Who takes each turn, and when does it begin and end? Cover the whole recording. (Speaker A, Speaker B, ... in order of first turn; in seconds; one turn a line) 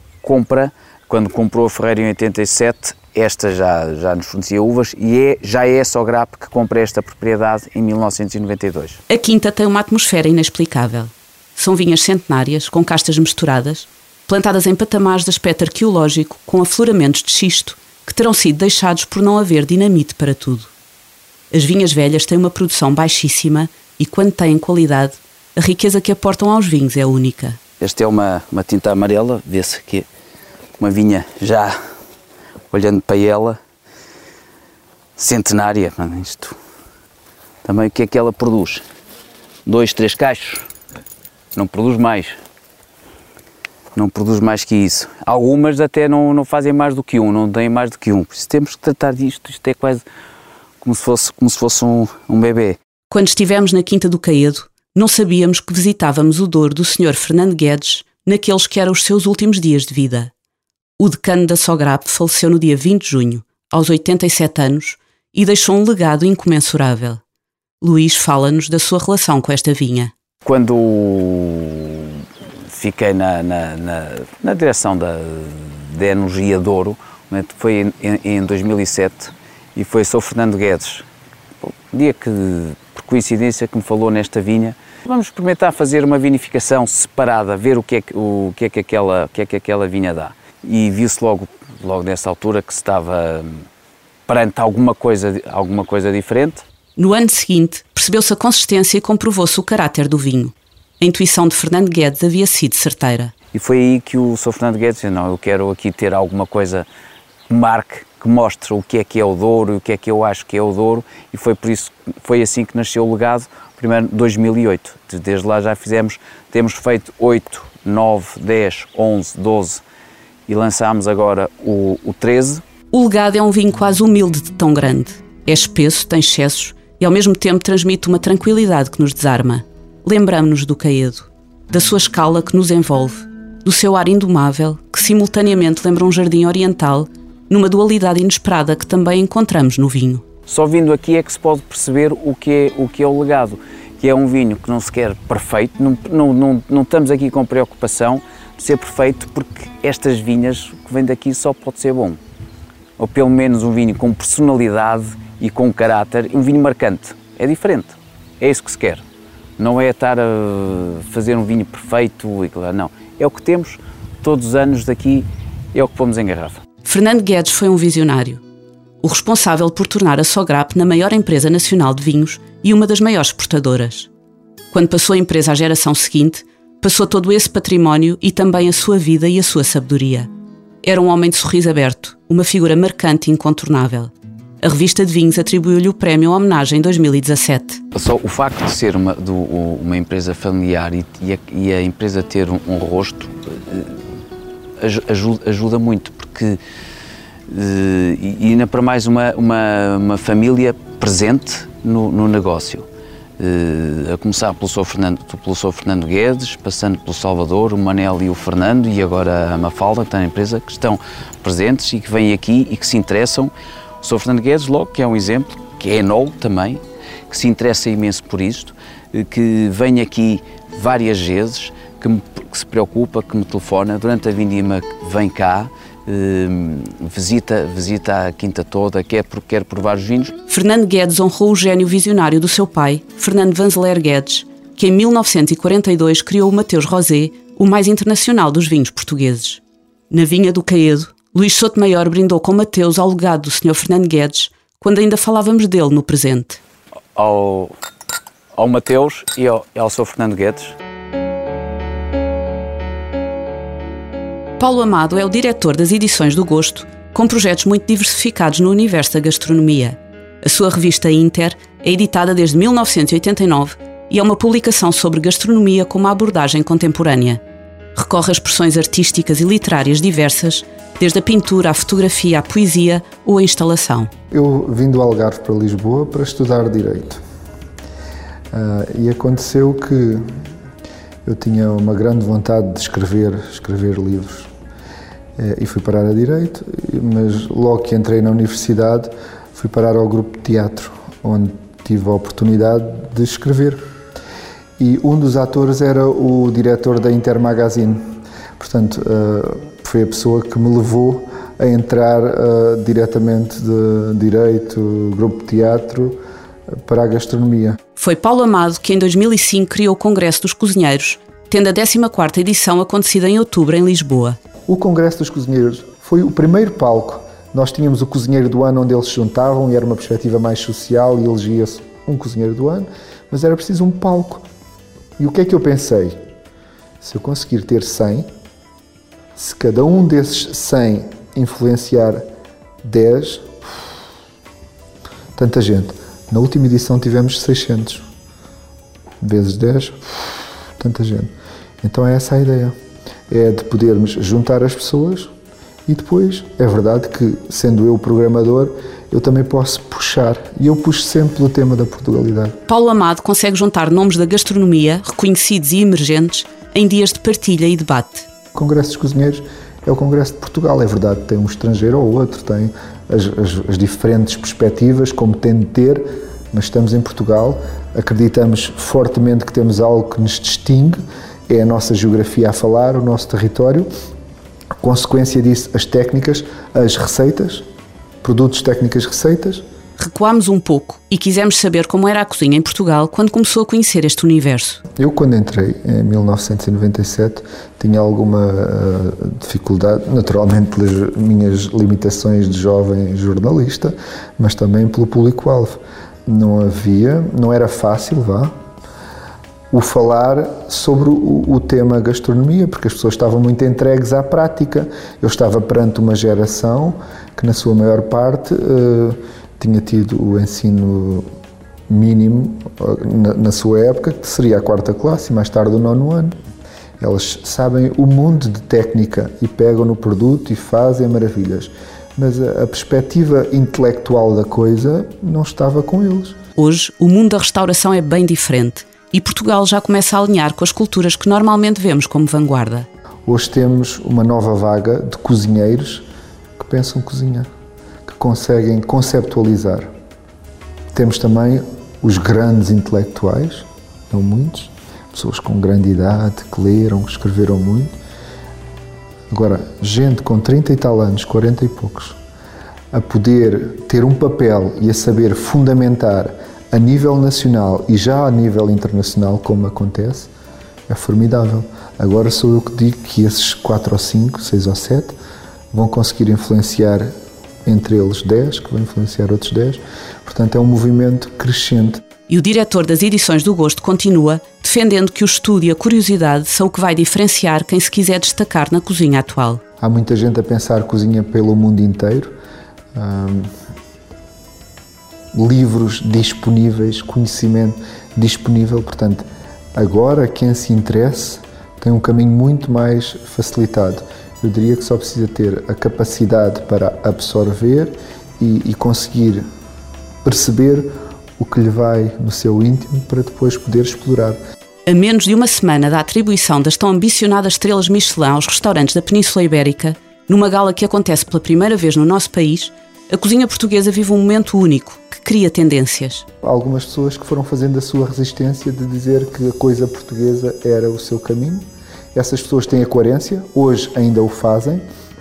Speaker A: 0.2-9.0
Speaker B: 9.1-20.7
Speaker B: 21.5-27.6
Speaker A: 27.8-30.1
Speaker A: 30.8-31.8
Speaker A: 32.7-33.6
Speaker A: 35.2-36.6
Speaker A: 37.6-38.9
Speaker A: 39.7-40.7
Speaker A: 41.5-42.4
Speaker A: 44.0-50.0
Speaker A: 50.8-52.8
Speaker B: 53.1-60.3
Speaker B: 61.0-67.2
Speaker B: 67.8-70.1
Speaker A: 70.5-81.1
Speaker A: 81.6-93.6
Speaker A: 94.3-96.6
Speaker B: 97.0-103.3
Speaker A: 103.5-106.9
Speaker A: 107.5-119.8
Speaker A: 120.5-122.6
Speaker B: 122.9-140.2
Speaker A: 140.5-152.2
Speaker A: 153.0-159.0
Speaker A: 159.6-166.6
Speaker B: 166.8-168.4
Speaker B: 169.0-174.1
Speaker B: 174.7-180.3
Speaker B: 180.8-187.8
Speaker A: 187.9-194.0
Speaker A: 194.8-196.6
Speaker A: 197.5-202.9
Speaker A: 203.4-230.3
Speaker B: 230.5-246.6
Speaker A: 247.2-247.7
Speaker A: 248.6-250.8
Speaker B: 254.6-267.4
Speaker B: 267.9-274.1
Speaker C: 274.3-277.2
Speaker C: 278.5-280.2
Speaker C: 281.3-284.5
Speaker C: 285.4-293.8
Speaker C: 294.8-298.1
Speaker C: 298.6-306.2
Speaker C: 306.8-307.8
Speaker B: 308.0-314.4
Speaker C: 314.7-324.5
Speaker C: 325.2-326.2
Speaker C: 327.0-328.3
Speaker C: 329.4-332.2
Speaker C: 332.8-333.5
Speaker C: 335.4-338.1
Speaker C: 339.2-340.0
Speaker C: 340.8-341.3
Speaker C: 341.8-342.7
Speaker C: 343.3-345.3
Speaker C: 345.9-352.6
Speaker B: 352.7-358.3
Speaker C: 358.6-373.9
Speaker C: 374.8-377.7
Speaker C: 378.2-379.6
Speaker B: 380.0-384.8
Speaker C: 385.0-398.5
Speaker C: 399.7-411.3
Speaker C: 411.9-416.4
Speaker C: 417.0-426.4
Speaker B: 426.6-432.9
Speaker C: 433.3-436.1
Speaker C: 436.6-437.5
Speaker C: 438.1-439.9
Speaker C: 440.9-447.9
Speaker C: 449.3-452.2
Speaker C: 452.9-460.3
Speaker C: 460.9-465.2
Speaker C: 465.7-467.1
Speaker C: 467.7-472.0
Speaker B: 472.3-479.6
Speaker C: 479.8-482.3
Speaker C: 482.9-483.5
Speaker C: 485.3-499.4
Speaker C: 500.2-504.4
Speaker B: 504.9-516.2
Speaker C: 516.4-524.8